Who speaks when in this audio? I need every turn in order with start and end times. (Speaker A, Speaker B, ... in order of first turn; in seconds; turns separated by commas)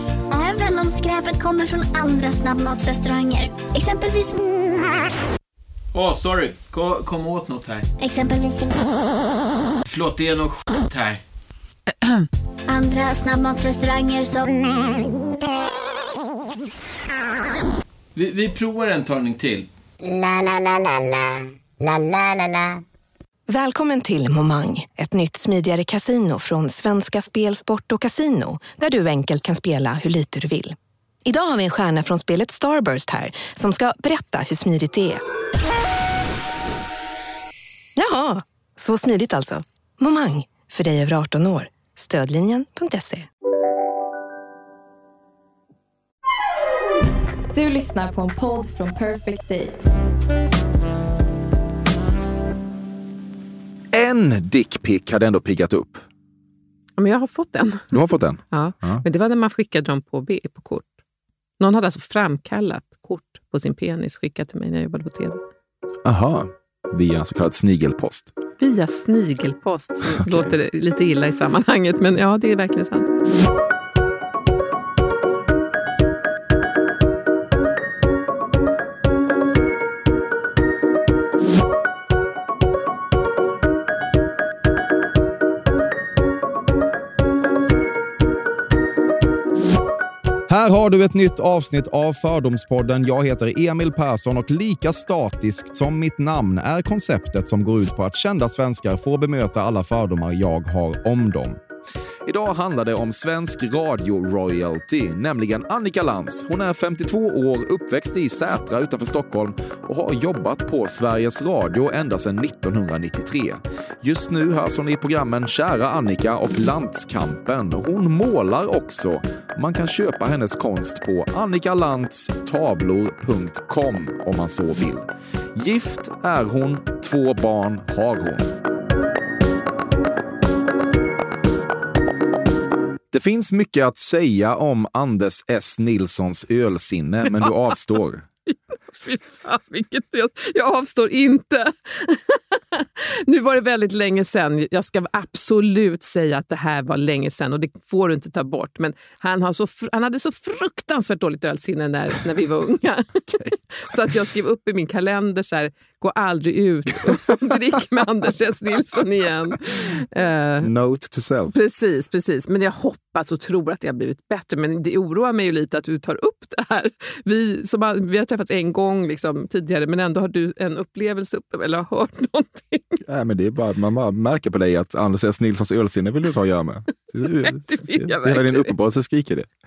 Speaker A: 0.3-4.4, Speaker B: 5.9-7.9, Speaker A: 8.0-8.9, Speaker B: 9.9-11.2, Speaker A: 12.7-15.1, Speaker B: 18.1-19.7, Speaker C: 20.0-22.8, Speaker D: 23.5-35.2, Speaker D: 38.0-43.3, Speaker E: 47.5-49.8, Speaker F: 53.9-56.0, Speaker G: 57.0-57.9, Speaker F: 57.9-59.0, Speaker G: 58.5-60.9, Speaker G: 61.6-65.4, Speaker F: 66.0-68.3, Speaker G: 68.6-73.1, Speaker F: 70.2-70.5, Speaker F: 90.5-101.6, Speaker F: 102.2-128.5, Speaker F: 133.1-138.2, Speaker G: 138.5-160.7, Speaker F: 160.6-161.5, Speaker G: 161.5-173.0, Speaker F: 173.1-179.5, Speaker G: 177.4-178.7